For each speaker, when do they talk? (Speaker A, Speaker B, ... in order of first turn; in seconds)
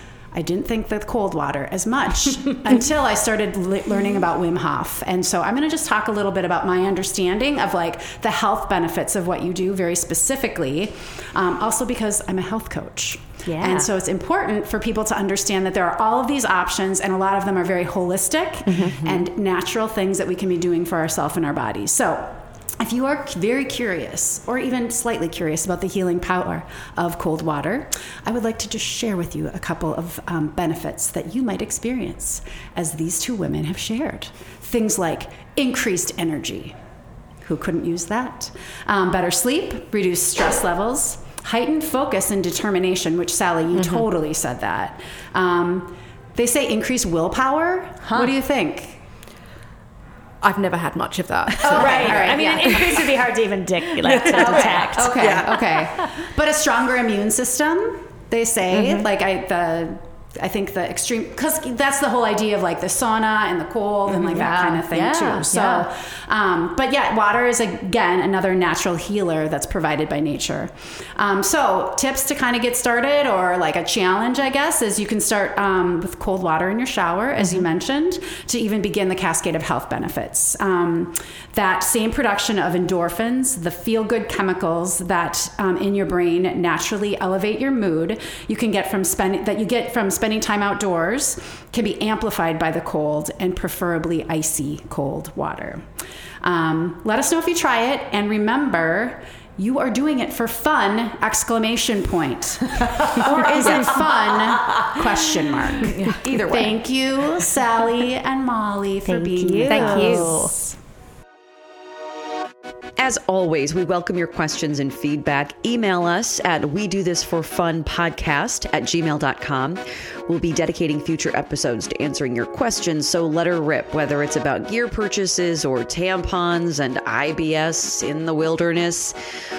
Speaker A: 0.3-36.8, 37.4-49.0, 51.6-53.0, 54.2-110.6
Speaker B: 13.4-13.9, 51.7-55.5, 64.1-64.5, 109.1-110.5
Speaker C: 18.7-19.2, 43.7-44.0, 50.4-53.1, 54.0-55.6, 58.7-59.1, 109.7-110.4
Speaker D: 64.3-65.9, 103.3-104.2, 105.8-106.8, 109.9-110.3, 113.0-129.2